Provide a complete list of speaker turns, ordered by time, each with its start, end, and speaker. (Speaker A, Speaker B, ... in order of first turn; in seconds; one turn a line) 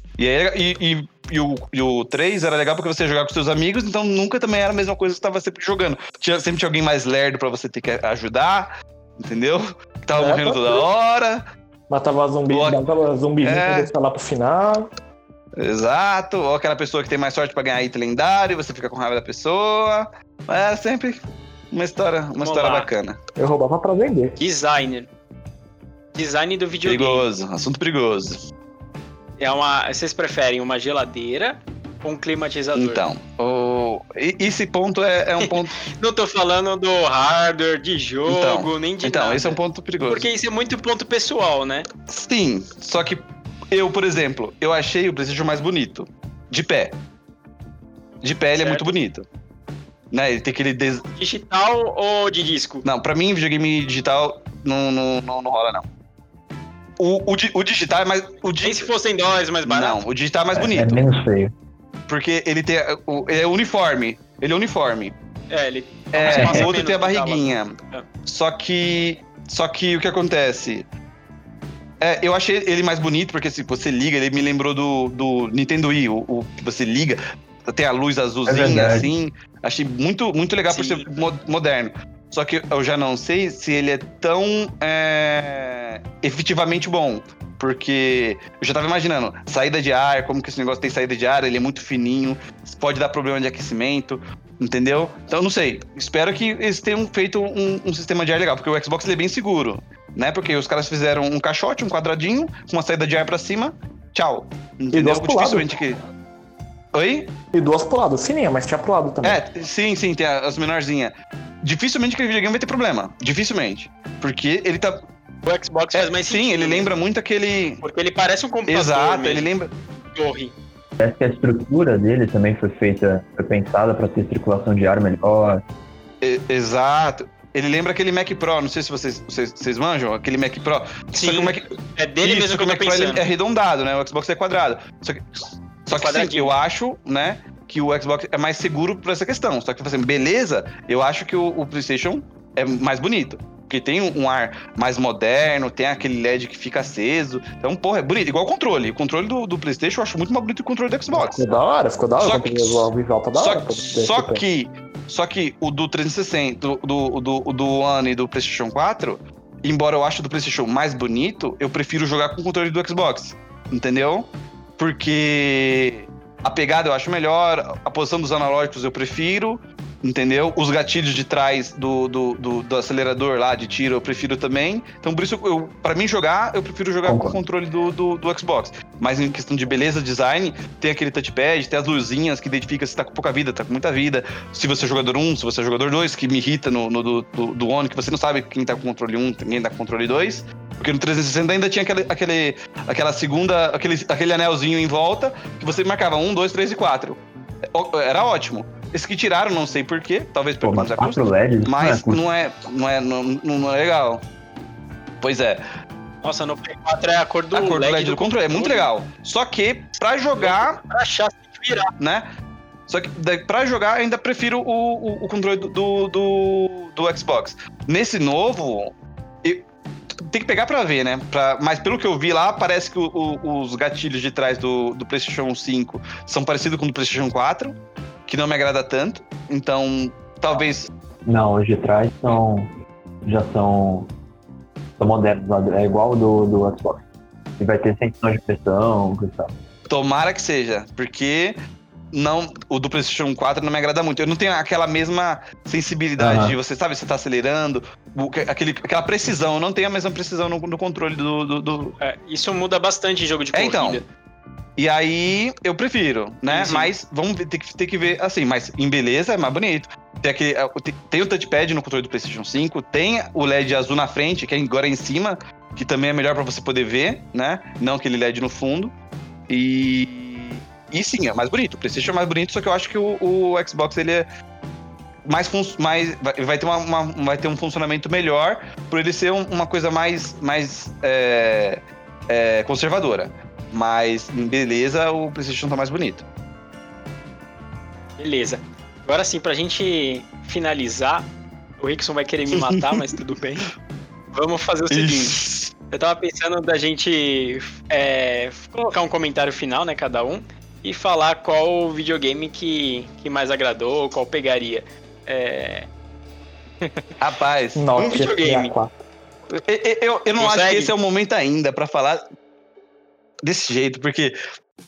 Speaker A: 0.2-11.4
Speaker B: 10.1-10.9
Speaker B: 11.9-14.9
Speaker A: 12.5-12.8
Speaker A: 13.4-13.9
Speaker A: 15.6-21.2
Speaker A: 21.7-23.2
Speaker C: 22.4-22.9
Speaker B: 23.4-24.4
Speaker C: 24.4-25.1
Speaker C: 26.1-27.3
Speaker A: 26.8-28.4
Speaker C: 29.4-33.0
Speaker A: 32.8-35.7
Speaker C: 35.4-41.9
Speaker A: 38.3-40.3
Speaker A: 42.1-47.0
Speaker A: 48.2-49.3
Speaker C: 48.6-48.9
Speaker A: 50.1-51.0
Speaker C: 51.1-52.9
Speaker A: 52.8-55.9
Speaker A: 57.0-58.9
Speaker C: 58.6-60.0
Speaker A: 59.7-61.0
Speaker D: 60.6-61.5
Speaker A: 62.1-65.2
Speaker C: 65.5-68.0
Speaker A: 66.1-70.9
Speaker D: 66.3-66.7
Speaker A: 72.0-106.0
Speaker D: 78.5-79.1
Speaker C: 80.7-81.1
Speaker B: 104.9-105.8
Speaker A: 106.9-107.3
Speaker B: 107.5-109.4
Speaker A: 109.2-115.0
Speaker C: 115.4-116.9
Speaker A: 115.9-117.8
Speaker C: 117.8-119.5
Speaker A: 118.7-119.7
Speaker C: 120.1-120.5
Speaker D: 121.0-125.6
Speaker A: 126.2-135.2
Speaker C: 131.1-133.3
Speaker A: 135.9-151.4
Speaker C: 135.9-136.6
Speaker B: 151.1-154.5
Speaker A: 152.2-197.2
Speaker D: 177.1-177.4
Speaker A: 197.7-204.2
Speaker D: 200.6-202.2
Speaker A: 205.2-205.6
Speaker C: 206.2-208.9
Speaker A: 207.5-210.8
Speaker C: 210.4-211.9
Speaker A: 212.0-212.3
Speaker A: 212.9-219.7
Speaker A: 220.2-227.8
Speaker A: 228.3-230.9
Speaker D: 231.3-232.7
Speaker D: 233.2-234.1
Speaker D: 235.0-237.0
Speaker D: 237.6-239.5
Speaker A: 239.9-241.6
Speaker A: 242.1-252.0
Speaker D: 246.2-246.6
Speaker C: 252.0-254.1
Speaker A: 253.5-254.0
Speaker A: 254.8-268.9
Speaker C: 256.5-256.9
Speaker A: 269.5-274.3
Speaker A: 275.3-286.2
Speaker C: 288.2-293.7
Speaker A: 292.6-293.0
Speaker C: 294.3-295.4
Speaker A: 294.9-295.7
Speaker C: 295.9-305.9
Speaker C: 306.8-307.1
Speaker A: 307.2-308.2
Speaker B: 307.8-308.9
Speaker C: 308.0-308.7
Speaker A: 309.5-312.2
Speaker C: 310.4-310.9
Speaker A: 313.4-314.4